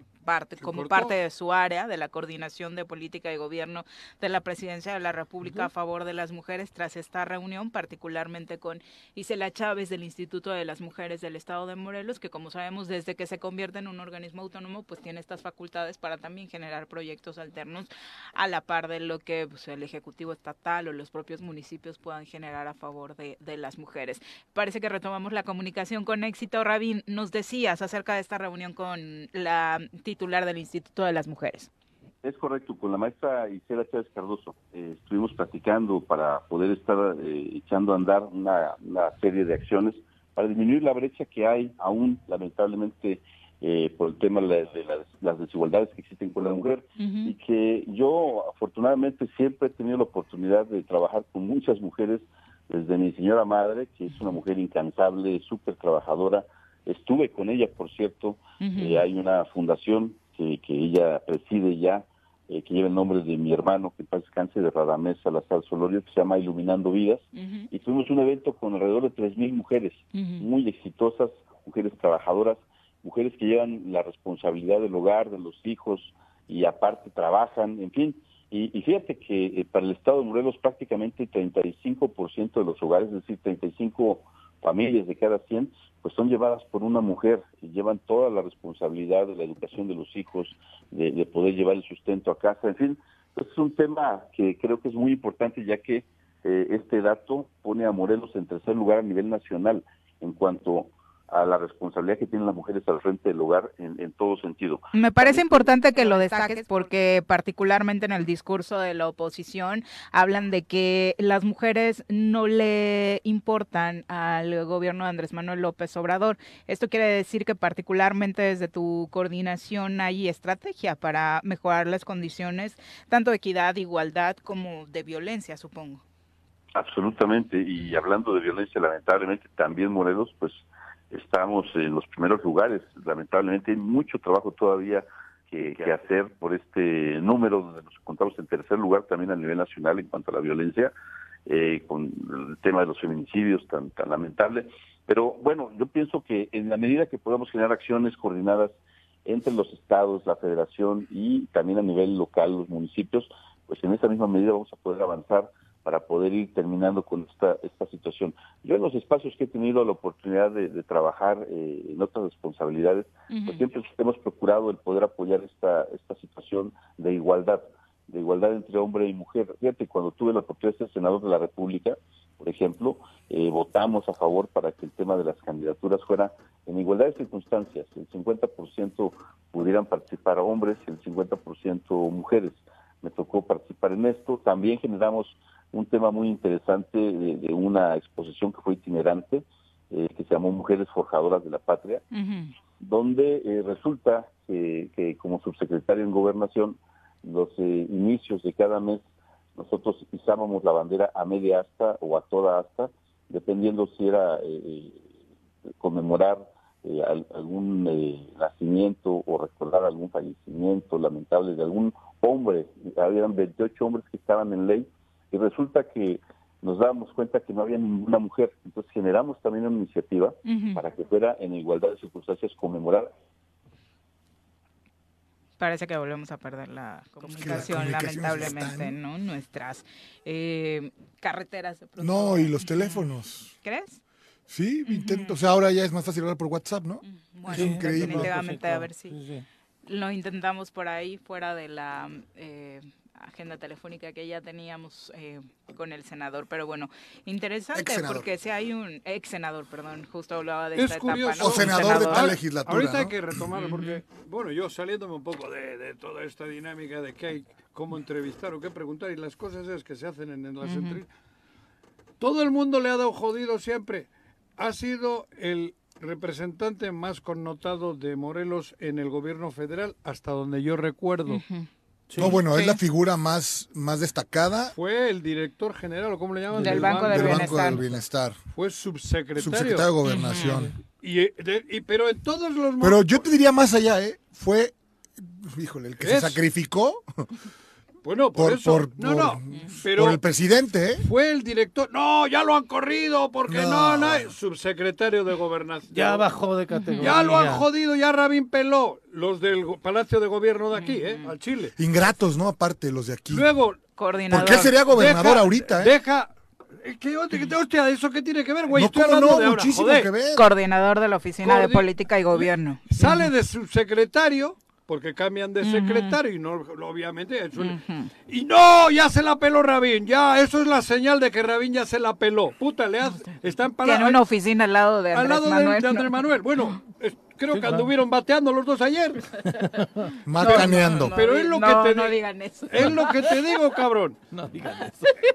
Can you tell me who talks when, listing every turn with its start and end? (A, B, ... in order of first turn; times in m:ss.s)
0:00.2-0:31.7 A
0:00.6-0:01.2 B
0:32.2-1:45.7 C
0:47.0-0:47.3 A
0:58.6-0:59.0 A
1:07.3-1:07.7 A
1:10.1-1:10.4 A
1:44.9-2:06.0 A
2:06.7-2:20.9 C
2:21.4-3:12.0 C
2:43.3-2:43.6 A
3:12.1-3:12.5 A
3:12.8-3:19.0 C
3:19.6-3:25.0 C
3:25.8-3:43.1 C
3:40.4-3:40.8 A
3:45.6-3:53.0 A
3:47.3-3:49.0 D
3:52.0-3:53.5 D
3:53.6-3:54.0 A
3:54.5-3:58.3 D
3:54.8-3:55.3 A
3:57.0-3:59.1 A
3:57.5-3:59.4 E
3:59.8-4:12.3 A
4:07.7-4:08.3 D
4:10.7-4:21.1 B
4:11.4-4:13.4 D
4:13.6-4:14.0 A
4:20.6-4:21.0 A
4:22.2-4:31.4 B
4:31.3-4:31.7 A
4:32.1-4:32.4 E
4:32.2-4:34.7 D
4:32.2-4:32.8 A
4:34.7-4:37.6 B
4:36.5-4:38.0 E
4:36.6-4:37.8 A
4:37.1-4:38.4 D
4:38.5-4:39.9 B
4:39.4-4:40.7 D
4:40.0-4:40.7 A
4:41.0-4:43.2 B
4:42.8-4:47.0 D
4:46.0-4:46.4 B
4:48.0-4:50.2 B
4:48.4-4:51.0 D
4:51.0-4:56.3 B
4:53.5-4:54.3 D
4:55.9-4:57.6 E
4:56.7-4:57.1 A
4:57.0-5:01.7 B
5:00.7-5:01.3 A
5:01.8-5:03.5 D
5:03.3-5:03.8 B
5:04.0-5:04.7 A
5:04.3-5:05.9 D
5:04.3-5:10.1 B
5:08.7-5:10.5 D
5:10.3-5:13.3 A
5:11.4-5:24.2 B
5:15.6-5:16.2 A
5:17.6-5:18.1 A
5:23.8-5:26.7 A
5:25.1-5:29.3 B
5:27.5-5:27.9 E
5:29.7-5:30.0 E
5:30.2-5:31.2 D
5:30.3-5:33.4 A
5:30.4-5:34.2 B
5:34.3-5:35.2 E